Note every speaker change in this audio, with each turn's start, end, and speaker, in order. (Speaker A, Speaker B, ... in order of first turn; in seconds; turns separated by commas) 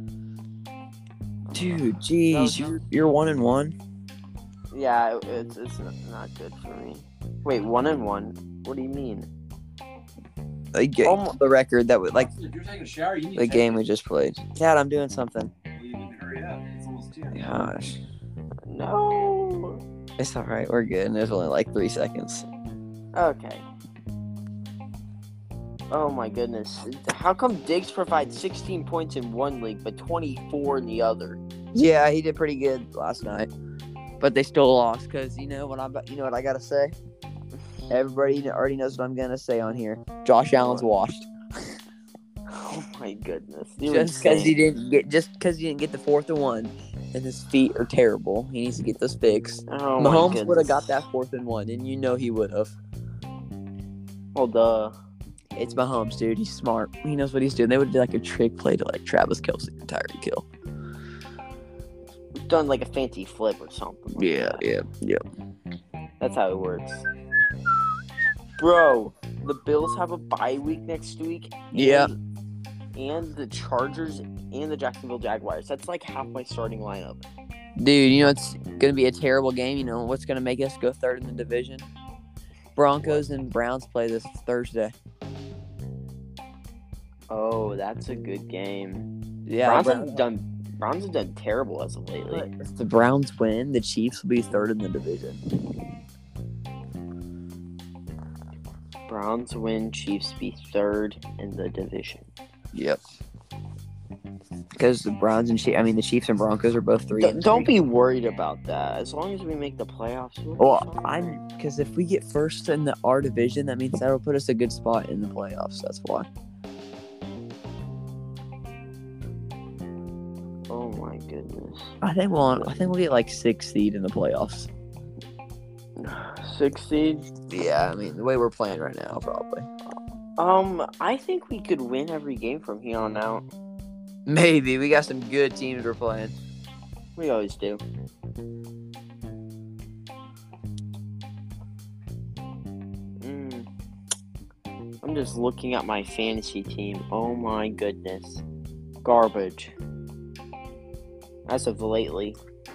Speaker A: 1.5-3.8, Speaker B: 2.3-2.8, Speaker B: 4.7-9.3, Speaker A: 10.7-12.3, Speaker B: 11.0-11.3, Speaker C: 12.7-13.3, Speaker A: 13.3-15.5, Speaker C: 15.9-17.3, Speaker A: 17.3-18.0, Speaker B: 18.7-19.8, Speaker A: 20.2-22.4, Speaker B: 23.1-23.7, Speaker B: 25.9-31.4, Speaker A: 31.7-33.5, Speaker A: 34.2-36.9, Speaker A: 37.9-41.3, Speaker B: 40.6-40.9, Speaker B: 42.5-44.6, Speaker A: 43.9-52.8, Speaker B: 49.7-51.0, Speaker B: 54.3-54.9, Speaker A: 55.5-60.4, Speaker B: 62.5-64.6, Speaker A: 64.2-65.2, Speaker B: 66.2-67.0, Speaker B: 68.6-72.1, Speaker A: 71.7-72.1, Speaker B: 73.0-77.2, Speaker A: 77.8-81.9, Speaker A: 82.8-84.9, Speaker B: 87.3-89.1, Speaker A: 89.5-90.2, Speaker B: 89.6-92.5, Speaker A: 92.3-95.4, Speaker B: 99.1-102.2, Speaker A: 102.7-103.0, Speaker A: 104.8-107.7, Speaker B: 107.2-111.4, Speaker A: 110.6-116.3, Speaker B: 120.7-121.9, Speaker A: 122.0-124.7, Speaker B: 126.0-127.3, Speaker A: 127.5-129.7, Speaker B: 130.4-133.4, Speaker A: 134.3-136.3, Speaker B: 137.2-137.8, Speaker B: 143.2-143.7, Speaker B: 145.0-148.4, Speaker B: 149.0-149.7, Speaker B: 151.5-152.4